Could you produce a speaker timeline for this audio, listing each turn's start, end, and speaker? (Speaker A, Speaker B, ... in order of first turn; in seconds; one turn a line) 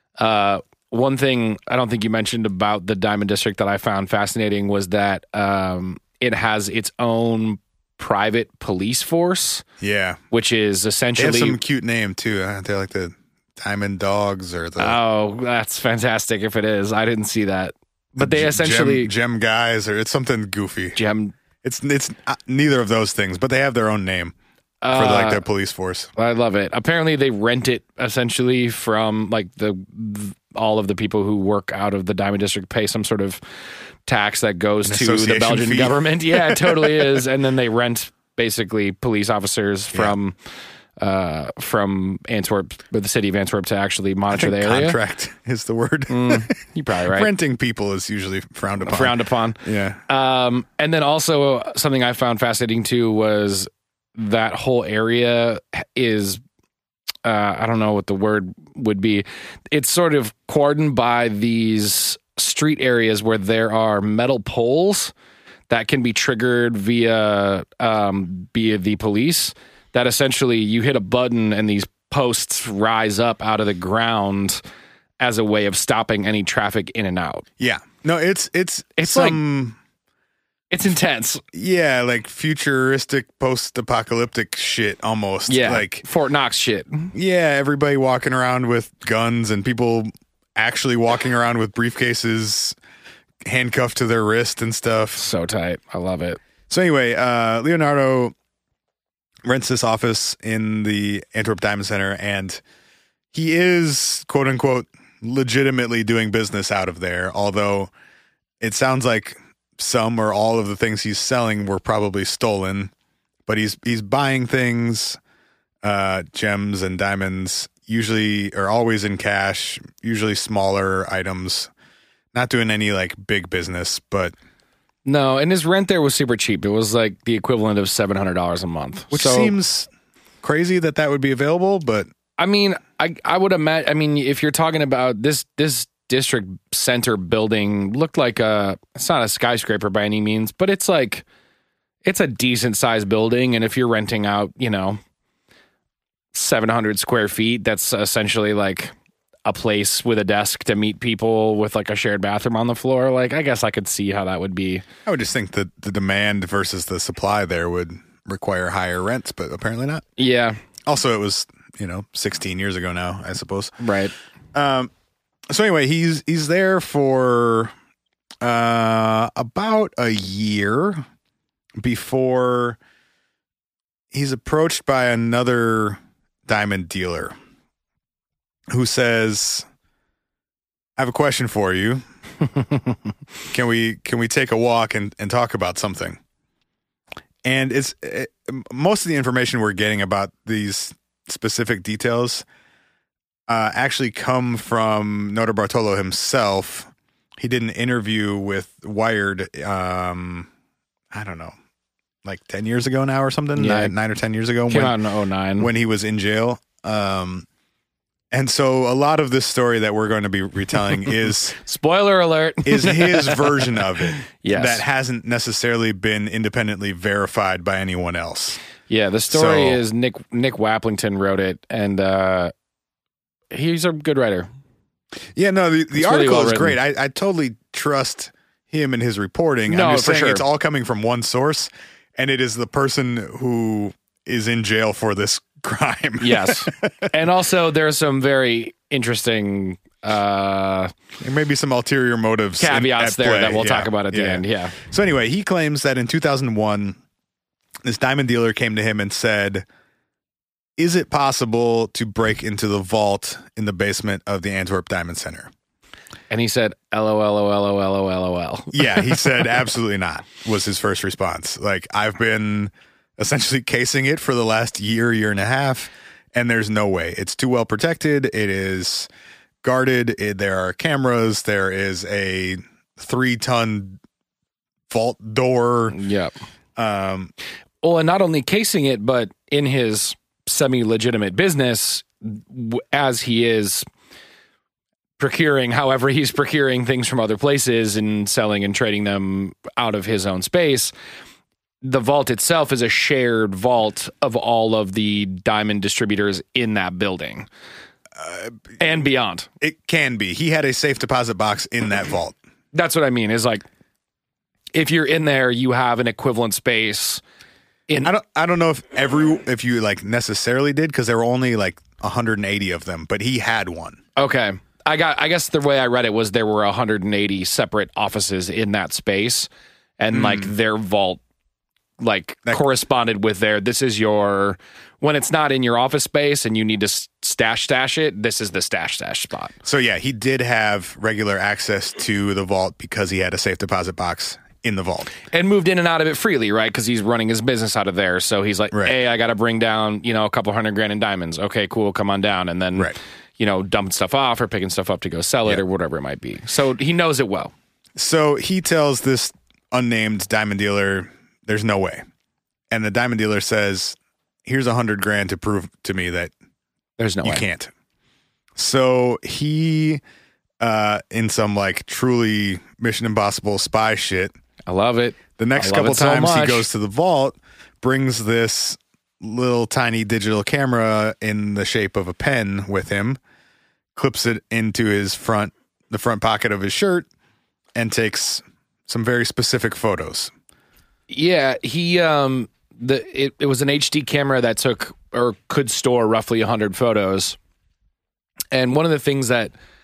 Speaker A: 0.2-9.6
Speaker B: 9.8-10.2
Speaker A: 10.3-11.6
Speaker B: 11.2-15.0
Speaker A: 14.8-19.1
Speaker B: 18.2-21.0
Speaker A: 20.9-21.4
Speaker B: 21.6-24.3
Speaker A: 24.8-25.4
Speaker B: 24.9-26.1
Speaker A: 26.2-33.4
Speaker A: 34.1-40.4
Speaker B: 34.9-37.2
Speaker A: 41.0-45.0
Speaker B: 44.3-46.6
Speaker A: 46.1-47.3
Speaker B: 47.1-50.0
Speaker A: 48.8-56.4
Speaker A: 57.2-65.1
Speaker A: 65.7-74.6
Speaker A: 75.2-77.5
Speaker B: 77.6-79.8
Speaker A: 79.0-79.4
Speaker A: 80.7-81.4
Speaker B: 81.5-86.0
Speaker A: 85.5-87.1
Speaker B: 87.1-92.8
Speaker B: 93.5-95.2
Speaker A: 95.2-96.4
Speaker B: 96.7-98.3
Speaker B: 99.5-102.6
Speaker B: 103.3-107.9
Speaker B: 108.6-112.9
Speaker B: 113.5-115.2
Speaker B: 115.8-121.7
Speaker B: 122.3-124.3
Speaker A: 125.0-129.6
Speaker B: 129.1-129.9
Speaker B: 130.4-132.1
Speaker A: 132.4-141.2
Speaker A: 142.0-145.0
Speaker A: 146.3-148.9
Speaker A: 149.4-154.8
Speaker B: 155.1-160.1
Speaker A: 160.2-160.6
Speaker B: 160.9-163.8
Speaker A: 163.8-164.1
Speaker B: 164.5-164.9
Speaker B: 165.5-167.7
Speaker B: 168.4-171.0
Speaker B: 171.8-172.8
Speaker B: 174.1-177.3
Speaker B: 178.7-179.7
Speaker B: 181.0-182.0
Speaker B: 183.5-186.2
Speaker B: 187.4-192.4
Speaker B: 193.5-200.5
Speaker B: 201.1-201.5
Speaker B: 202.2-205.0
Speaker A: 203.6-203.9
Speaker A: 204.7-205.7
Speaker B: 205.6-207.5
Speaker B: 208.3-211.6
Speaker A: 211.6-214.8
Speaker B: 212.7-218.6
Speaker A: 218.9-222.5
Speaker B: 219.3-219.8
Speaker A: 223.5-224.5
Speaker B: 225.3-237.1
Speaker A: 225.9-226.8
Speaker A: 229.7-230.5
Speaker A: 236.2-240.9
Speaker B: 241.2-247.0
Speaker A: 242.6-244.8
Speaker B: 247.8-249.7
Speaker B: 250.8-255.5
Speaker A: 256.3-259.2
Speaker B: 258.7-269.1
Speaker B: 269.6-274.0
Speaker B: 274.9-276.0
Speaker A: 275.9-276.3
Speaker B: 276.8-277.3
Speaker A: 277.8-283.9
Speaker A: 285.2-290.9
Speaker A: 291.8-297.5
Speaker B: 298.2-298.8
Speaker A: 298.8-299.5
Speaker B: 299.6-302.4
Speaker A: 302.7-303.6
Speaker A: 304.7-307.2
Speaker B: 308.0-314.0
Speaker A: 314.2-321.2
Speaker B: 320.1-320.5
Speaker A: 322.0-329.5
Speaker B: 329.6-335.1
Speaker A: 335.3-347.5
Speaker B: 348.0-352.0
Speaker B: 352.7-356.3
Speaker A: 357.0-357.5
Speaker B: 357.2-357.7
Speaker B: 358.6-360.0
Speaker B: 360.6-364.3
Speaker A: 364.7-366.7
Speaker B: 365.4-373.2
Speaker B: 373.9-377.1
Speaker B: 377.8-380.3
Speaker A: 381.1-387.4
Speaker A: 388.5-389.5